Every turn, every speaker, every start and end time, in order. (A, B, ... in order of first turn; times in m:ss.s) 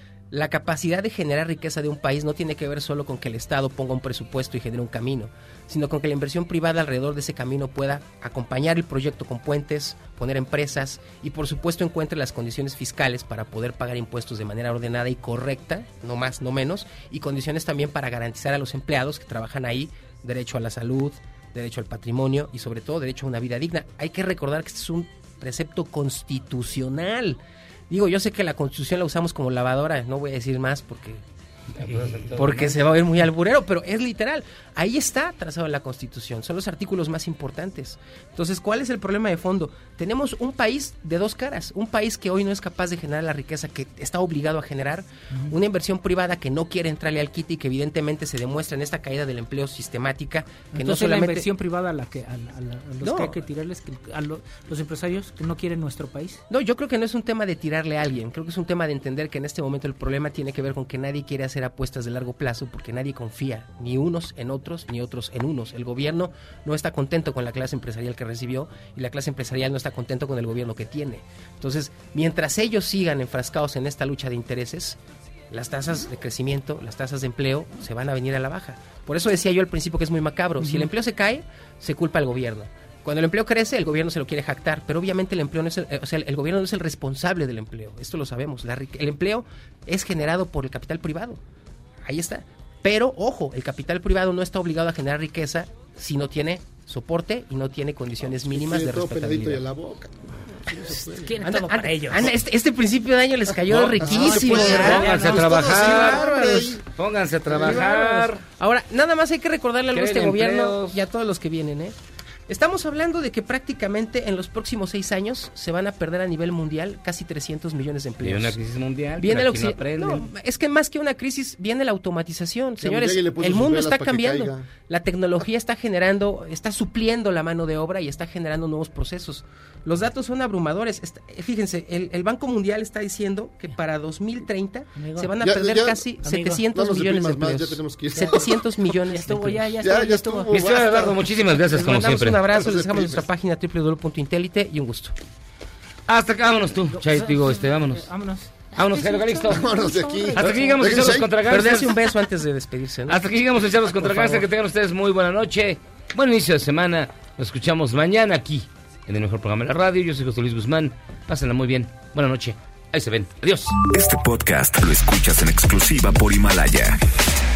0:00.3-0:31.2 A
0:31.8-0:32.8 B
0:31.8-0:51.5 A
0:50.7-0:56.4 C
0:53.0-0:53.4 A
0:56.5-1:15.0 A
1:15.5-1:31.4 A
1:32.0-1:39.6 A
1:38.2-1:41.3 D
1:40.8-1:42.2 C
1:41.4-1:46.8 A
1:43.7-1:48.4 B
1:44.0-1:46.8 D
1:44.1-1:45.5 C
1:47.5-1:47.8 D
1:47.5-1:51.9 A
1:49.9-1:51.0 B
1:52.5-1:58.6 A
1:58.2-2:00.3 B
1:59.2-2:19.7 A
2:02.8-2:04.7 D
2:15.0-2:15.4 C
2:15.4-2:16.1 D
2:16.2-2:16.6 C
2:16.7-2:18.5 D
2:18.2-2:20.5 C
2:19.7-2:21.2 D
2:20.5-2:22.4 B
2:21.7-2:25.1 A
2:22.5-2:23.2 D
2:26.1-2:28.1 B
2:26.9-2:30.9 C
2:28.7-2:29.7 B
2:29.5-2:31.4 D
2:30.3-2:32.0 B
2:31.4-2:33.2 A
2:33.1-2:43.7 B
2:34.0-2:34.4 A
2:43.8-2:47.0 E